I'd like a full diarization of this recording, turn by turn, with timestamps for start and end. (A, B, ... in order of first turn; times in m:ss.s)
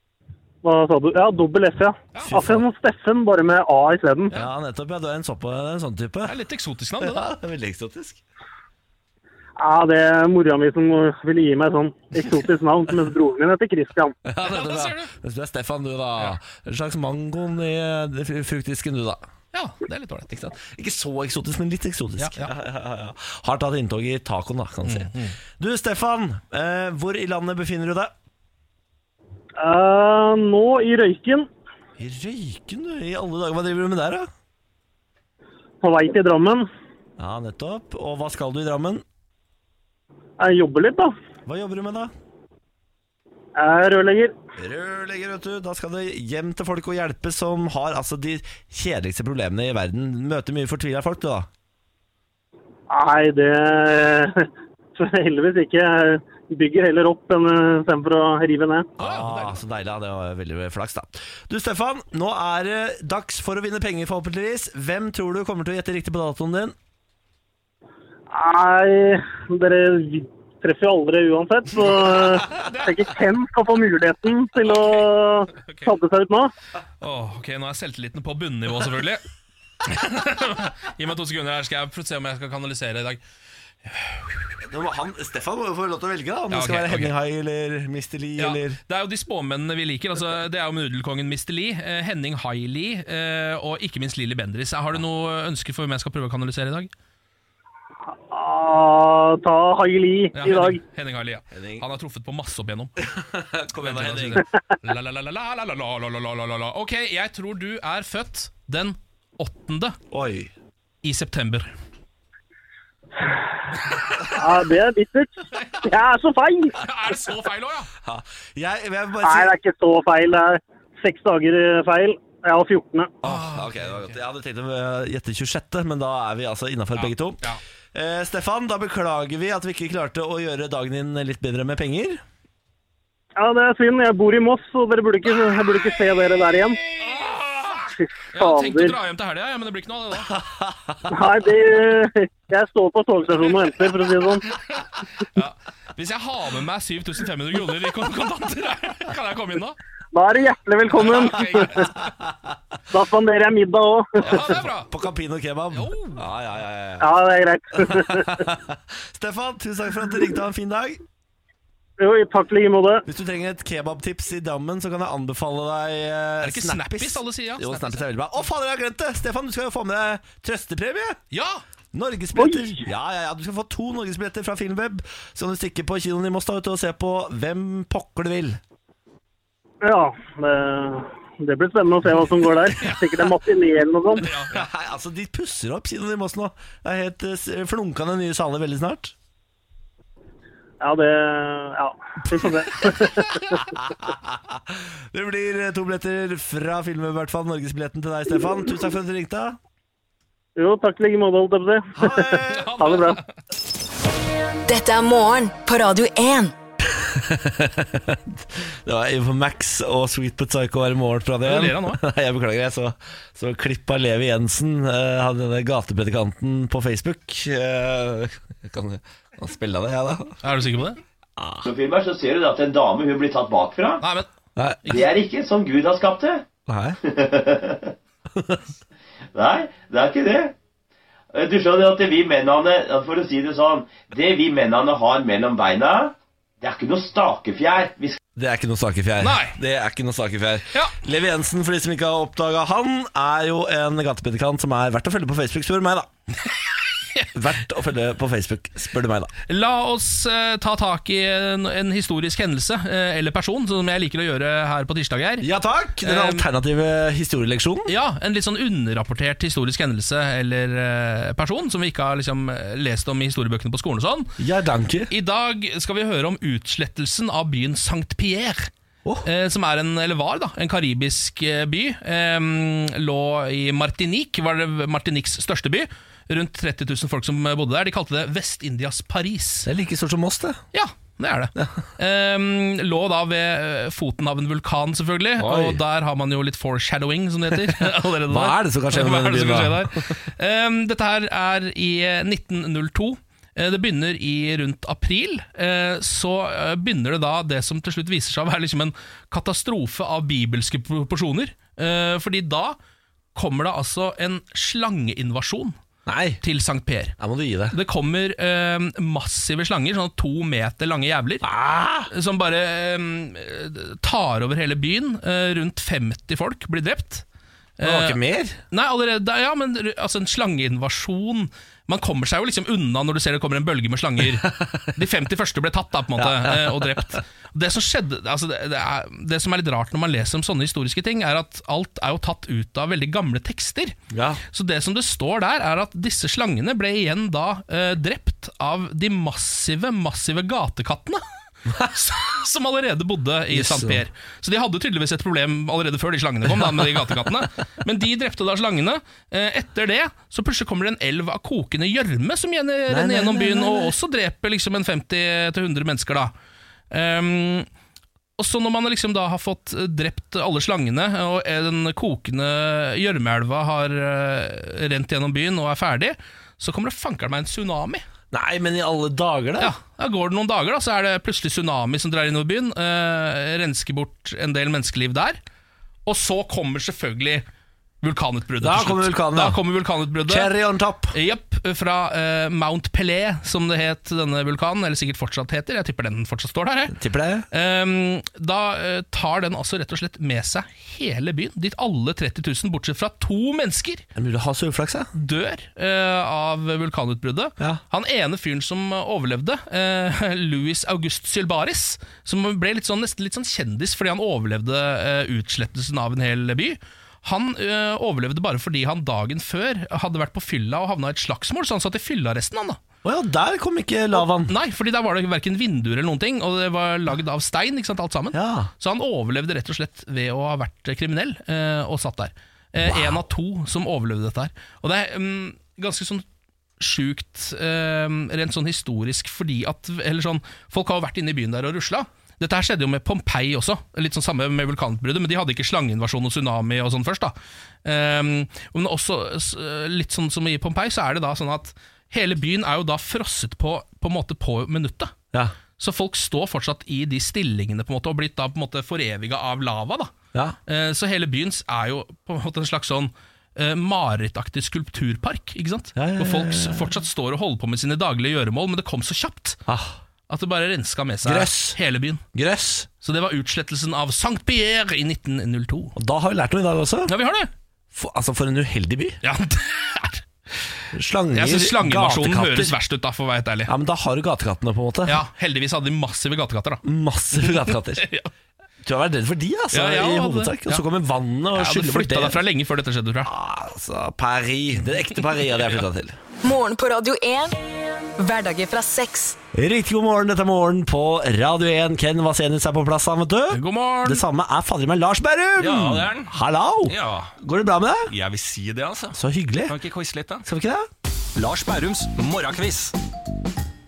0:00.6-0:04.3 A
0:02.1-0:02.5 B
0:02.3-0:02.6 C
0:04.3-0:06.3 C
0:06.2-0:07.3 B
0:07.0-0:08.2 C
0:09.6-0:14.2 A
0:14.2-0:19.2 C
0:14.4-0:15.1 B
0:19.5-0:20.3 B
0:20.3-0:28.1 C
0:22.2-0:22.5 B
0:24.8-0:25.4 B
0:29.6-0:31.5 A
0:32.0-0:34.3 C
0:35.8-0:36.7 A
0:37.2-0:39.0 C
0:40.4-0:41.1 A
0:41.5-0:42.1 C
0:43.6-0:44.3 A
0:44.6-0:51.5 C
0:52.9-0:58.9 A
0:59.0-1:06.8 C
0:59.0-0:59.6 B
1:08.3-1:16.5 A
1:12.5-1:13.0 B
1:14.6-1:15.9 B
1:17.0-1:19.2 B
1:19.8-1:23.2 B
1:23.9-1:24.4 B
1:24.6-1:28.8 C
1:26.5-1:27.1 B
1:28.4-1:36.9 B
1:38.3-1:40.8 A
1:40.3-1:42.9 B
1:41.5-1:41.8 C
1:43.0-1:44.4 C
1:43.8-1:50.0 B
1:50.1-1:50.5 C
1:51.0-1:51.7 B
1:54.3-1:56.8 A
1:56.8-1:57.9 B
1:58.0-1:59.5 C
1:59.2-2:03.2 A
2:03.2-2:04.2 B
2:03.2-2:07.4 C
2:07.0-2:07.6 B
2:07.9-2:12.2 C
2:13.4-2:16.8 A
2:16.9-2:20.4 B
2:18.0-2:19.0 A
2:20.4-2:20.9 C
2:21.1-2:24.5 A
2:25.3-2:29.8 B
2:30.1-2:31.9 A
2:31.0-2:31.9 B
2:32.9-2:34.4 A
2:34.2-2:34.9 B
2:34.3-2:37.1 C
2:35.7-2:36.2 B
2:37.0-2:38.4 A
2:37.9-2:41.0 C
2:42.0-2:43.0 A
2:43.1-2:51.2 C
2:46.4-2:48.0 B
2:51.3-2:51.6 B
2:51.9-2:58.6 C
2:52.4-2:52.8 A
2:59.8-3:04.3 A
3:04.2-3:04.7 B
3:04.5-3:09.1 C
3:10.8-3:13.7 A
3:13.8-3:19.6 C
3:20.6-3:23.2 A
3:22.0-3:22.8 C
3:22.5-3:23.3 B
3:24.7-3:26.5 D
3:26.8-3:40.4 C
3:31.4-3:32.0 B
3:40.4-3:41.0 B
3:41.4-3:41.7 C
3:41.6-3:44.0 E
3:44.0-3:44.3 B
3:44.6-3:45.0 C
3:44.8-3:45.1 B
3:44.9-3:46.4 E
3:46.7-3:47.0 C
3:47.0-3:48.0 E
3:48.3-3:48.6 C
3:49.3-3:50.5 E
3:51.3-3:58.2 E
3:58.4-4:06.1 C
3:59.2-3:59.6 B
4:07.0-4:07.3 B
4:07.3-4:09.3 C
4:09.5-4:15.5 B
4:15.4-4:17.9 C
4:16.0-4:16.5 B
4:17.9-4:24.4 B
4:24.4-4:25.1 C
4:25.1-4:28.7 B
4:29.2-4:39.7 B
4:39.6-4:40.6 C
4:40.7-5:02.8 B
4:45.4-4:45.8 C
4:47.6-4:50.1 C
5:03.4-5:05.8 B
5:06.1-5:06.4 C
5:06.4-5:07.2 B
5:07.2-5:07.8 C
5:07.7-5:11.5 B
5:11.4-5:12.1 C
5:12.1-5:17.2 B
5:17.8-5:18.2 B
5:17.8-5:18.6 C
5:18.7-5:34.0 B
5:24.4-5:24.8 C
5:26.2-5:27.0 C
5:34.1-5:34.4 C
5:34.5-5:41.2 B
5:41.7-5:56.3 B
5:43.5-5:44.0 C
5:52.9-5:53.9 C
5:56.9-5:57.7 B
5:58.4-6:08.0 B
6:08.3-6:09.7 C
6:09.6-6:15.4 B
6:16.1-6:17.4 B
6:18.0-6:20.5 B
6:18.6-6:19.6 C
6:20.2-6:21.2 C
6:21.1-6:27.0 B
6:26.9-6:27.5 C
6:27.5-6:34.0 B
6:34.2-6:35.1 C
6:35.2-6:52.8 B
6:53.0-6:54.5 C
6:54.2-7:06.2 B
6:58.3-6:58.7 C
7:02.8-7:03.2 C
7:06.8-7:25.1 B
7:25.8-7:30.1 B
7:30.7-7:39.6 B
7:36.0-7:36.9 C
7:39.7-7:40.0 C
7:40.3-7:42.2 B
7:41.2-7:41.8 C
7:42.3-7:42.9 C
7:43.0-7:46.0 B
7:46.0-7:47.1 C
7:47.1-7:47.5 B
7:47.9-7:49.2 C
7:49.2-7:50.3 B
7:50.9-7:52.8 C
7:51.3-7:53.7 B
7:53.7-7:55.2 C
7:55.1-7:56.8 B
7:56.8-7:58.0 C
7:57.4-7:58.3 B
7:58.8-8:02.4 C
7:59.7-8:00.8 B
8:01.5-8:03.3 B
8:03.2-8:06.2 C
8:06.4-8:07.6 D
8:08.2-8:09.4 D
8:09.5-8:18.1 C
8:13.5-8:14.2 B
8:15.6-8:17.3 F
8:18.1-8:20.4 F
8:19.1-8:19.8 C
8:20.4-8:20.9 C
8:21.4-8:23.0 F